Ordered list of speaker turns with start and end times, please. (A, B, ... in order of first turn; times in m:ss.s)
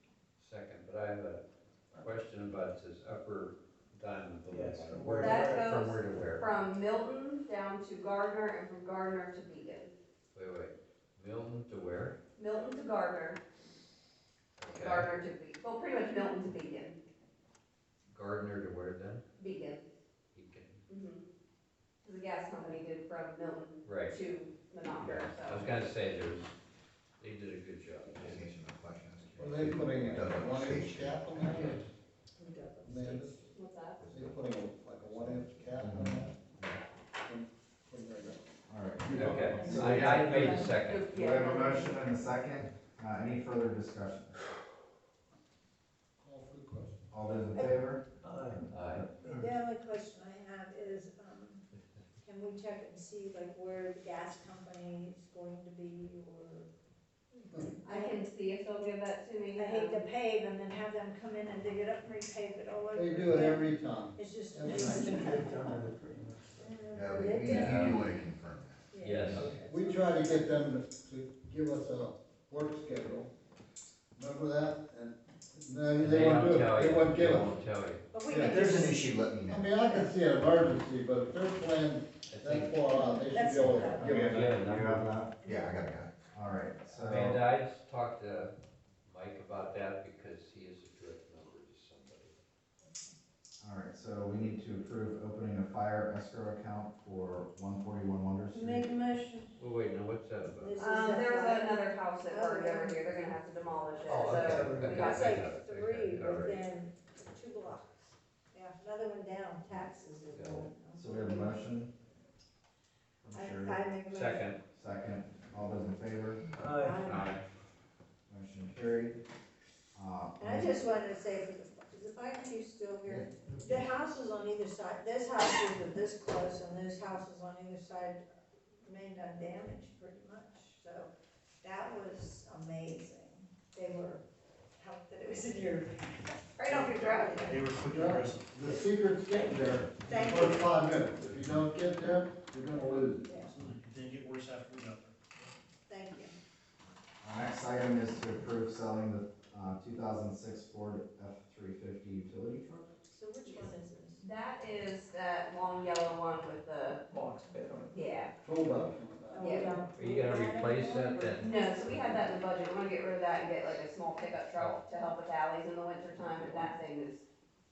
0:00.4-0:06.5 A
0:04.5-0:05.7 B
0:05.2-0:09.9 C
0:10.3-0:12.2 A
0:12.4-0:13.4 C
0:14.6-0:15.2 A
0:14.7-0:17.0 C
0:18.1-0:19.2 A
0:19.4-0:19.8 C
0:20.3-0:20.8 A
0:20.9-0:21.2 C
0:22.0-0:25.8 C
0:23.8-0:24.1 A
0:25.3-0:26.5 A
0:27.2-0:28.5 A
0:28.2-0:31.1 D
0:29.4-0:31.8 E
0:31.4-0:31.8 A
0:32.4-0:32.9 F
0:32.8-0:36.5 E
0:33.5-0:34.0 C
0:35.2-0:36.8 G
0:37.2-0:40.2 E
0:38.7-0:44.4 G
0:39.1-0:41.0 A
0:39.4-0:40.7 F
0:40.7-0:42.0 C
0:46.2-0:47.1 E
0:47.1-0:48.0 G
0:48.2-0:48.6 B
0:48.7-0:49.1 A
0:49.2-0:51.6 F
0:52.2-0:56.7 F
0:57.6-0:58.2 F
0:57.8-1:00.0 C
0:59.5-1:05.8 F
1:02.9-1:05.4 E
1:04.6-1:06.6 B
1:06.6-1:08.0 F
1:06.9-1:08.8 D
1:07.5-1:08.1 A
1:08.9-1:10.6 F
1:09.0-1:09.5 A
1:09.3-1:13.3 E
1:14.2-1:17.5 E
1:16.0-1:18.1 A
1:18.1-1:20.1 F
1:18.3-1:18.7 E
1:18.5-1:19.7 D
1:19.4-1:24.9 E
1:22.3-1:22.8 A
1:22.9-1:24.1 F
1:23.9-1:25.4 G
1:24.0-1:25.1 A
1:25.4-1:25.7 F
1:25.4-1:26.1 D
1:26.3-1:27.4 G
1:26.9-1:32.4 A
1:32.8-1:33.1 F
1:33.6-1:38.9 G
1:38.5-1:39.5 F
1:39.6-1:40.8 A
1:40.6-1:43.1 F
1:40.8-1:45.3 C
1:44.1-1:46.6 A
1:44.4-1:44.9 B
1:44.8-1:51.6 F
1:50.3-1:50.7 A
1:50.9-1:51.9 G
1:53.2-1:53.8 G
1:53.3-1:54.5 F
1:54.1-1:54.6 A
1:54.7-1:56.4 G
1:56.6-1:57.0 B
1:56.8-1:57.3 F
1:56.9-1:57.4 A
1:58.3-1:59.2 G
1:59.9-2:00.7 G
2:00.4-2:08.2 F
2:08.8-2:11.1 F
2:11.6-2:14.2 F
2:14.8-2:17.6 F
2:16.6-2:17.4 C
2:17.4-2:18.7 H
2:17.8-2:23.4 E
2:19.9-2:20.8 F
2:23.1-2:23.6 F
2:23.4-2:25.1 H
2:25.9-2:26.3 F
2:27.2-2:33.0 G
2:33.1-2:34.2 F
2:33.4-2:37.0 C
2:37.1-2:37.9 B
2:37.9-2:38.3 C
2:38.4-2:39.8 E
2:39.3-2:41.9 F
2:39.4-2:39.8 C
2:39.9-2:41.5 A
2:41.4-2:47.2 C